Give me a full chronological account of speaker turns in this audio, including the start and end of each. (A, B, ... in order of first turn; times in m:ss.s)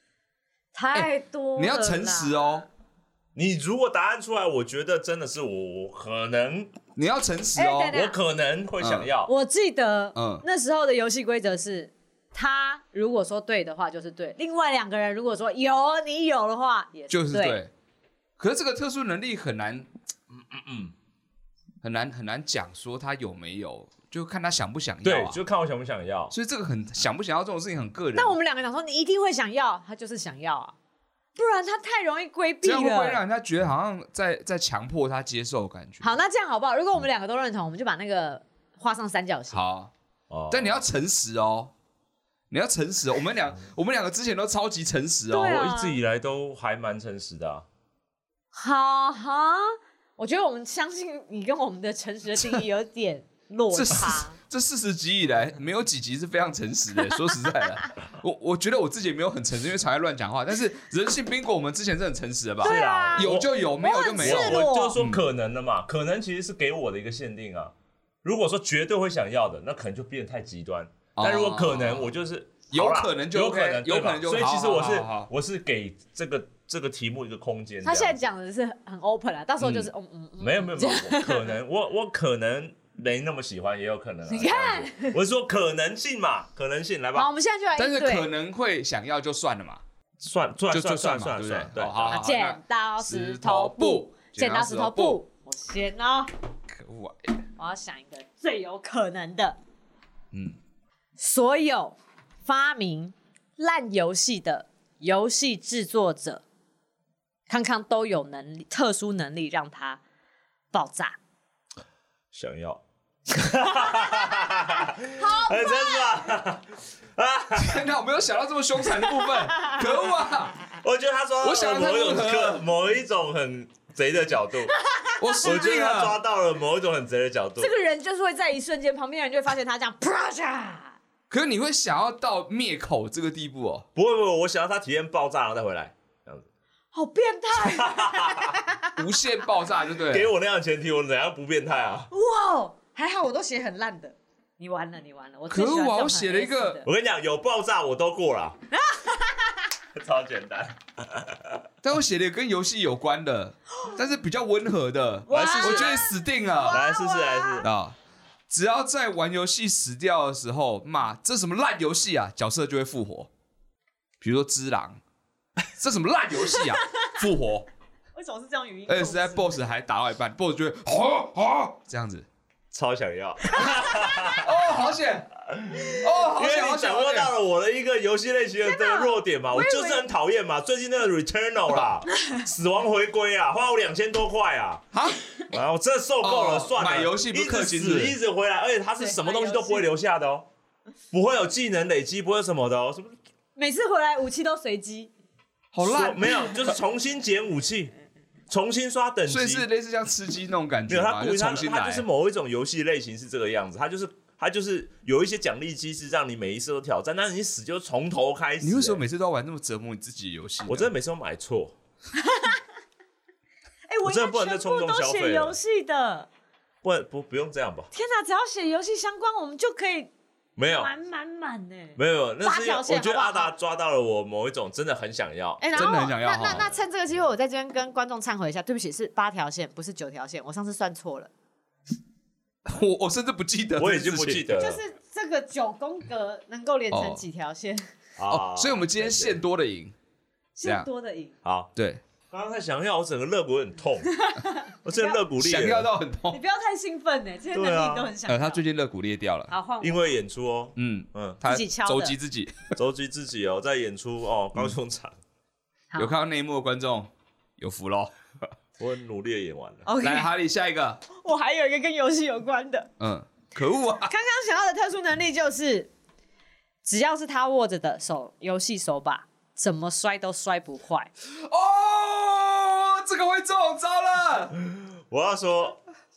0:00.7-0:02.5 A
0:00.9-0:02.7 B
0:03.4-0:06.7 C
0:07.0-0:07.9 B
0:07.6-0:08.2 A
0:07.9-0:09.3 C
0:08.8-0:09.1 B
0:09.3-0:17.6 A
0:10.2-0:10.4 B
0:17.1-0:17.7 B
0:18.4-0:19.9 B
0:20.3-0:20.9 C
0:21.8-0:25.4 B
0:25.0-0:26.3 C
0:26.3-0:28.4 B
0:28.2-0:30.8 A
0:31.4-0:33.2 A
0:32.6-0:36.2 B
0:36.0-0:39.6 A
0:39.5-0:39.9 B
0:40.3-0:40.8 C
0:40.5-0:41.7 B
0:42.5-0:45.6 B
0:45.3-0:46.0 A
0:45.4-0:47.7 C
0:48.5-0:54.4 A
0:53.7-1:05.2 B
1:02.6-1:03.5 C
1:02.6-1:05.0 A
1:04.2-1:18.2 C
1:11.2-1:12.1 B
1:12.7-1:15.3 B
1:17.8-1:21.5 A
1:20.4-1:27.3 C
1:24.3-1:25.2 A
1:27.2-1:28.3 A
1:27.8-1:29.8 B
1:30.2-1:32.2 C
1:30.7-1:35.2 B
1:32.1-1:36.3 A
1:36.7-1:37.4 B
1:37.6-1:39.6 A
1:40.3-1:40.6 B
1:41.2-1:46.4 A
1:47.5-1:50.0 A
1:50.7-1:51.2 A
1:52.3-1:57.9 C
1:53.8-1:54.5 A
1:55.1-1:56.1 A
1:57.6-2:00.6 B
2:00.8-2:04.7 C
2:01.4-2:02.6 B
2:04.9-2:05.3 A
2:05.2-2:06.2 B
2:05.4-2:07.7 C
2:07.6-2:11.0 A
2:11.3-2:13.8 B
2:14.0-2:16.5 C
2:16.9-2:18.9 A
2:17.6-2:18.6 C
2:19.0-2:20.3 B
2:20.0-2:22.1 C
2:22.1-2:26.9 A
2:25.5-2:26.8 B
2:26.8-2:28.6 C
2:28.7-2:29.7 A
2:30.0-2:31.6 C
2:31.8-2:36.8 B
2:35.3-2:37.6 A
2:35.3-2:36.0 C
2:36.7-2:37.7 C
2:37.6-2:38.0 B
2:38.5-2:43.3 B
2:44.2-2:45.0 B
2:45.8-2:47.7 B
2:48.2-2:49.6 A
2:48.9-2:52.3 B
2:52.7-2:54.7 C
2:53.6-2:54.3 A
2:54.3-2:55.3 B
2:55.5-3:04.8 C
2:55.9-2:57.3 B
2:58.6-3:00.0 A
3:04.9-3:05.4 B
3:05.5-3:10.5 C
3:06.2-3:08.2 B
3:09.0-3:09.9 A
3:11.1-3:13.2 C
3:13.6-3:15.1 A
3:15.7-3:16.8 B
3:15.8-3:17.9 C
3:18.5-3:19.7 C
3:19.3-3:22.1 B
3:20.9-3:29.0 C
3:28.6-3:30.9 B
3:30.7-3:31.8 C
3:32.2-3:32.6 A
3:33.9-3:36.3 A
3:34.1-3:35.6 C
3:36.8-3:37.9 C
3:37.9-3:40.1 A
3:40.6-3:40.9 C
3:40.7-3:43.5 A
3:42.0-3:46.7 C
3:45.6-3:51.3 A
3:45.8-3:46.7 B
3:52.6-3:54.4 B
3:53.8-3:54.8 C
3:54.6-3:57.9 A
3:56.9-3:57.2 B
3:58.2-3:59.4 C
3:58.3-3:59.9 B
4:00.6-4:01.4 A
4:01.4-4:01.7 C
4:01.8-4:02.0 B
4:02.3-4:04.2 C
4:04.2-4:05.2 A
4:04.8-4:05.9 C
4:05.4-4:06.4 B
4:06.3-4:08.6 A
4:07.5-4:08.1 C
4:08.3-4:09.5 B
4:09.5-4:10.1 A
4:09.8-4:11.4 C
4:10.8-4:12.8 B
4:11.4-4:12.1 A
4:12.8-4:15.2 C
4:16.0-4:18.1 B
4:18.8-4:19.9 C
4:19.9-4:20.3 A
4:20.0-4:21.0 B
4:21.1-4:22.9 A
4:23.0-4:24.1 B
4:24.1-4:25.9 A
4:26.8-4:31.1 A
4:31.3-4:34.6 B
4:34.6-4:35.8 C